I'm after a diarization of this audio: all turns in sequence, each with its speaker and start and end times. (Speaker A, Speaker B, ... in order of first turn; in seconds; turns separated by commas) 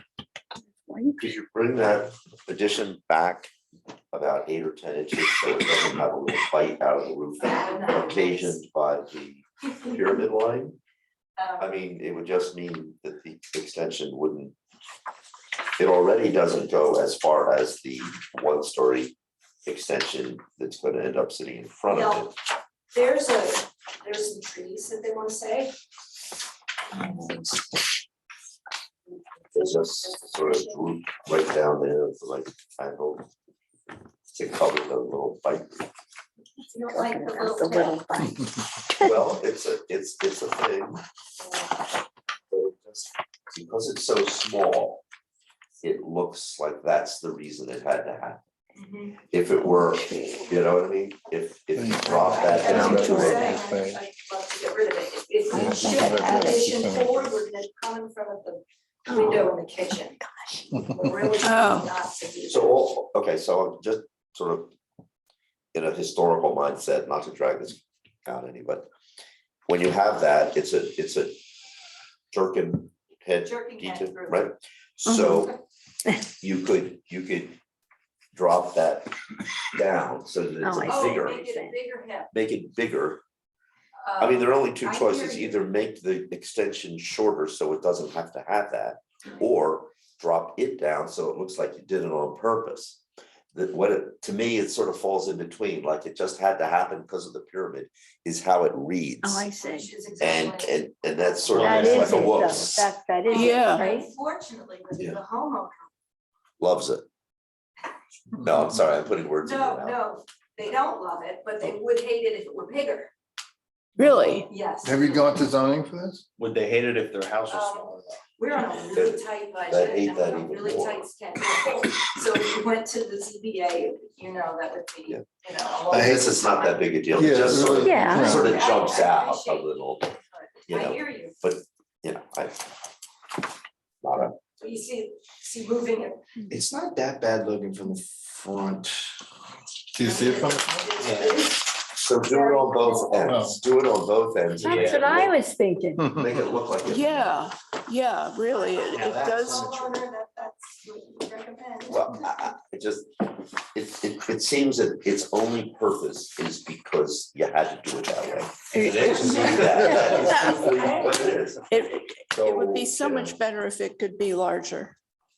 Speaker A: 0.9-1.3, Speaker B: 1.2-3.5, Speaker B: 4.1-10.8, Speaker C: 7.4-8.6, Speaker C: 11.4-11.9, Speaker B: 11.6-14.5, Speaker B: 15.8-19.1, Speaker B: 19.6-22.3, Speaker C: 21.9-22.3, Speaker C: 22.9-25.7, Speaker C: 26.9-27.8, Speaker C: 29.4-30.9, Speaker B: 29.5-33.3, Speaker B: 34.3-35.9, Speaker C: 36.6-38.0, Speaker A: 36.9-39.3, Speaker B: 39.0-41.0, Speaker C: 41.4-41.7, Speaker B: 42.5-45.0, Speaker B: 45.8-48.4, Speaker C: 48.8-49.2, Speaker B: 49.3-53.6, Speaker A: 50.0-50.5, Speaker D: 51.7-54.0, Speaker C: 52.3-60.2, Speaker A: 52.7-53.2, Speaker E: 52.7-53.6, Speaker A: 55.5-56.8, Speaker D: 55.5-57.2, Speaker A: 59.1-59.5, Speaker A: 60.3-60.6, Speaker C: 60.7-62.9, Speaker E: 61.4-61.9, Speaker B: 62.4-64.7, Speaker B: 65.7-68.9, Speaker B: 69.7-71.4, Speaker B: 72.3-75.5, Speaker C: 73.4-74.5, Speaker A: 75.1-75.4, Speaker B: 76.4-77.6, Speaker B: 78.3-79.1, Speaker B: 79.7-81.4, Speaker A: 80.6-81.8, Speaker C: 80.8-82.3, Speaker B: 82.3-83.2, Speaker C: 84.0-85.7, Speaker B: 84.2-93.0, Speaker B: 93.5-99.4, Speaker A: 99.2-99.9, Speaker C: 99.5-102.5, Speaker B: 100.2-102.8, Speaker F: 101.5-102.5, Speaker A: 101.6-104.1, Speaker C: 103.2-105.9, Speaker E: 103.3-103.9, Speaker B: 106.6-107.0, Speaker B: 108.3-110.0, Speaker C: 109.4-113.1, Speaker E: 114.0-114.5, Speaker C: 114.0-115.2, Speaker D: 114.8-116.2, Speaker F: 116.4-118.2, Speaker C: 117.5-131.4, Speaker B: 118.9-121.0, Speaker D: 125.9-126.3, Speaker B: 125.9-130.1, Speaker D: 127.1-128.6, Speaker A: 127.8-128.5, Speaker B: 130.7-132.7, Speaker B: 134.0-134.4, Speaker C: 134.6-136.4, Speaker F: 136.5-139.1, Speaker D: 139.9-140.8, Speaker C: 140.0-143.4, Speaker F: 141.0-141.5, Speaker B: 141.9-145.4, Speaker D: 143.3-143.6, Speaker F: 144.6-145.1, Speaker A: 144.6-146.1, Speaker D: 146.0-146.3, Speaker B: 146.2-147.4, Speaker E: 146.9-149.7, Speaker F: 148.8-150.0, Speaker C: 149.4-152.5, Speaker B: 151.9-153.2, Speaker B: 153.7-163.4, Speaker A: 158.7-160.3, Speaker F: 158.7-161.0, Speaker E: 160.3-161.0, Speaker E: 161.7-164.9